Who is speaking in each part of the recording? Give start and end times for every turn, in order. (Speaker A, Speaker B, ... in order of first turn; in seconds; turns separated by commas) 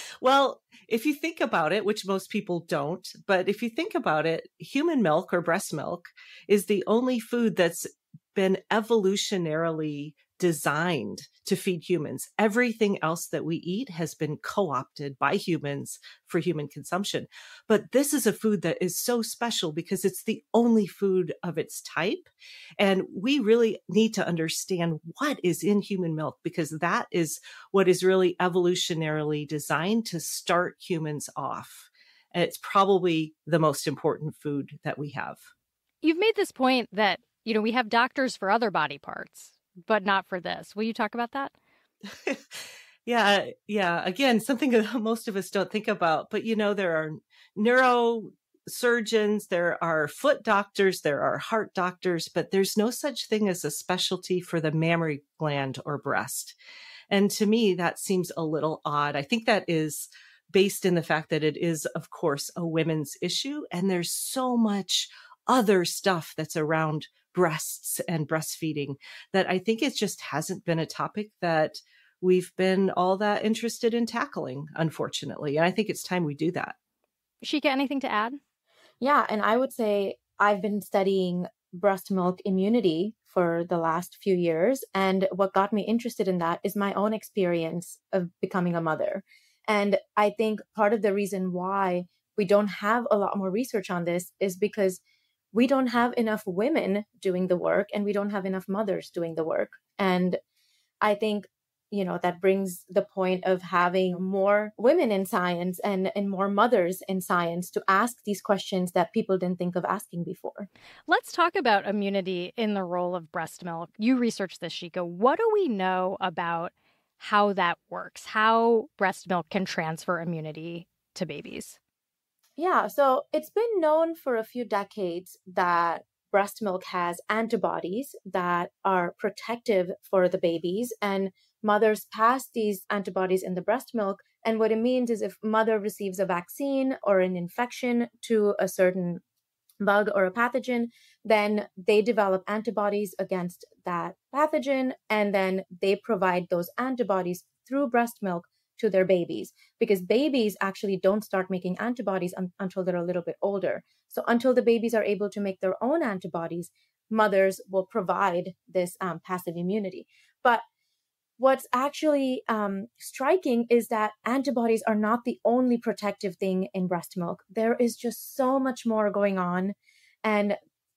Speaker A: 0.2-35.5, Speaker B: 36.0-41.5, Speaker A: 42.2-56.6, Speaker A: 57.1-76.8, Speaker B: 77.4-78.4, Speaker C: 79.0-95.0, Speaker C: 95.5-100.4, Speaker C: 101.0-110.7, Speaker B: 111.1-121.8, Speaker C: 122.6-139.2, Speaker C: 139.8-160.6, Speaker C: 161.4-170.6